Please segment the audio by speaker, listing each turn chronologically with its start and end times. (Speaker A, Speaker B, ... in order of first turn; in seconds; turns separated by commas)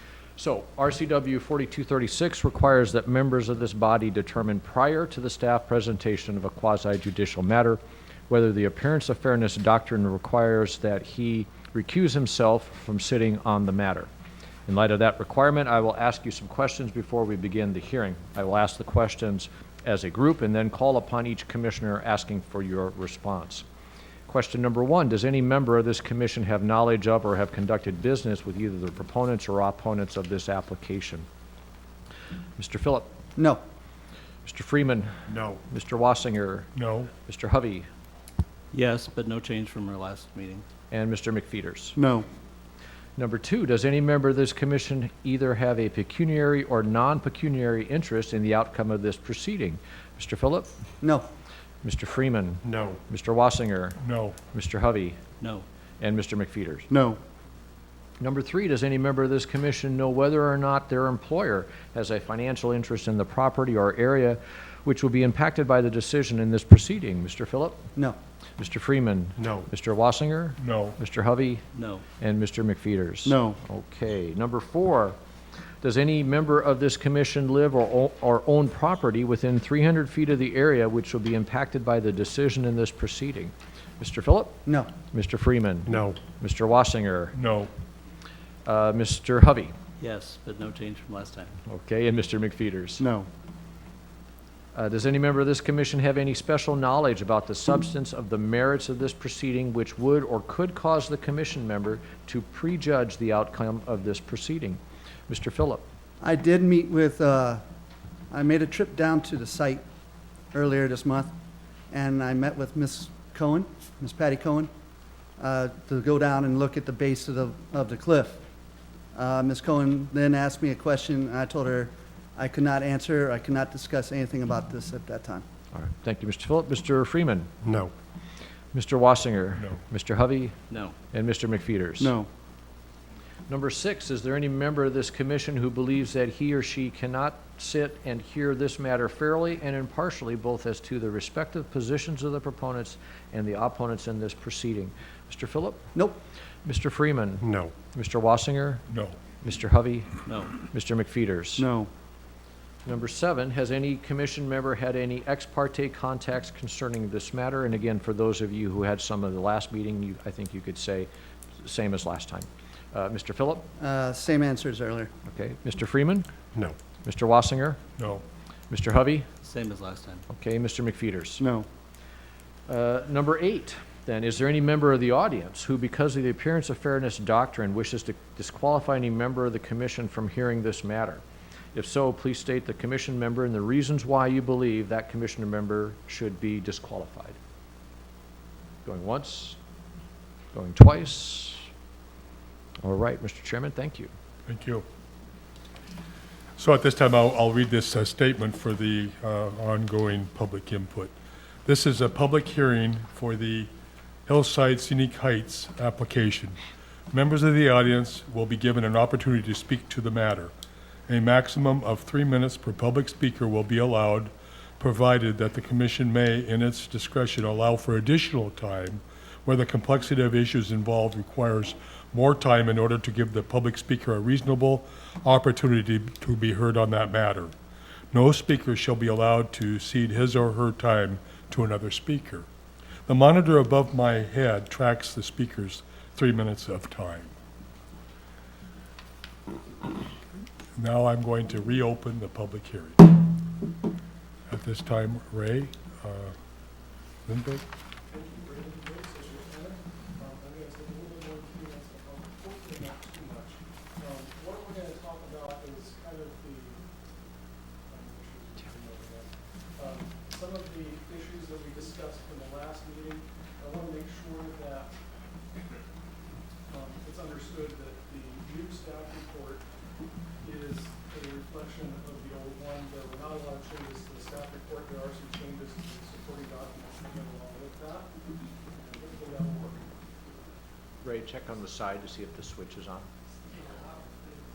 Speaker A: 0.4-14.1, Speaker A: 14.7-23.6, Speaker A: 24.3-31.2, Speaker A: 32.6-33.1, Speaker B: 33.4-33.6, Speaker A: 34.4-36.7, Speaker C: 35.3-35.6, Speaker C: 36.7-37.1, Speaker A: 37.2-37.9, Speaker D: 38.7-40.6, Speaker A: 40.9-42.0, Speaker B: 42.0-42.3, Speaker A: 43.1-50.7, Speaker B: 51.0-51.3, Speaker A: 51.8-55.2, Speaker C: 54.0-54.4, Speaker D: 55.4-55.6, Speaker A: 56.0-56.9, Speaker B: 56.9-57.2, Speaker A: 58.2-67.8, Speaker A: 68.6-71.6, Speaker C: 70.6-71.0, Speaker D: 71.7-72.0, Speaker A: 72.2-75.2, Speaker B: 73.2-73.6, Speaker A: 75.8-84.6, Speaker B: 84.7-84.9, Speaker A: 85.1-87.3, Speaker C: 85.9-86.2, Speaker C: 87.3-87.7, Speaker A: 88.7-89.7, Speaker D: 90.0-91.5, Speaker A: 91.7-93.0, Speaker B: 93.0-93.3, Speaker A: 94.7-105.8, Speaker B: 106.2-107.6, Speaker B: 108.3-109.8, Speaker B: 110.5-111.3, Speaker B: 111.9-114.7, Speaker B: 115.4-118.4, Speaker B: 119.1-125.4, Speaker A: 125.7-127.5, Speaker C: 127.6-127.9, Speaker A: 128.7-130.5, Speaker D: 130.7-130.9, Speaker A: 131.1-132.2, Speaker B: 132.0-132.3, Speaker A: 133.5-145.8, Speaker A: 146.6-148.8, Speaker C: 148.9-149.2, Speaker A: 149.4-151.7, Speaker D: 150.3-150.5, Speaker B: 151.6-151.9, Speaker A: 152.8-161.1, Speaker A: 161.6-163.7, Speaker B: 163.8-165.1, Speaker A: 165.3-166.3, Speaker A: 167.0-167.8, Speaker C: 168.0-168.2, Speaker A: 168.7-169.3, Speaker D: 169.4-170.2, Speaker A: 170.3-171.4, Speaker B: 171.4-171.7, Speaker A: 172.7-181.2, Speaker A: 181.7-187.4, Speaker A: 188.8-189.6, Speaker A: 190.5-191.7, Speaker A: 192.8-194.1, Speaker C: 194.4-194.8, Speaker C: 196.6-201.1, Speaker C: 201.6-203.7, Speaker C: 204.2-206.6, Speaker C: 207.1-210.5, Speaker C: 211.1-227.5, Speaker C: 228.1-232.5, Speaker C: 233.1-237.3, Speaker C: 240.8-243.2, Speaker C: 244.5-246.3, Speaker C: 247.2-247.6, Speaker E: 248.1-256.8, Speaker E: 257.9-264.9, Speaker E: 266.7-269.6, Speaker E: 270.4-278.1, Speaker E: 278.7-280.5, Speaker A: 281.0-283.1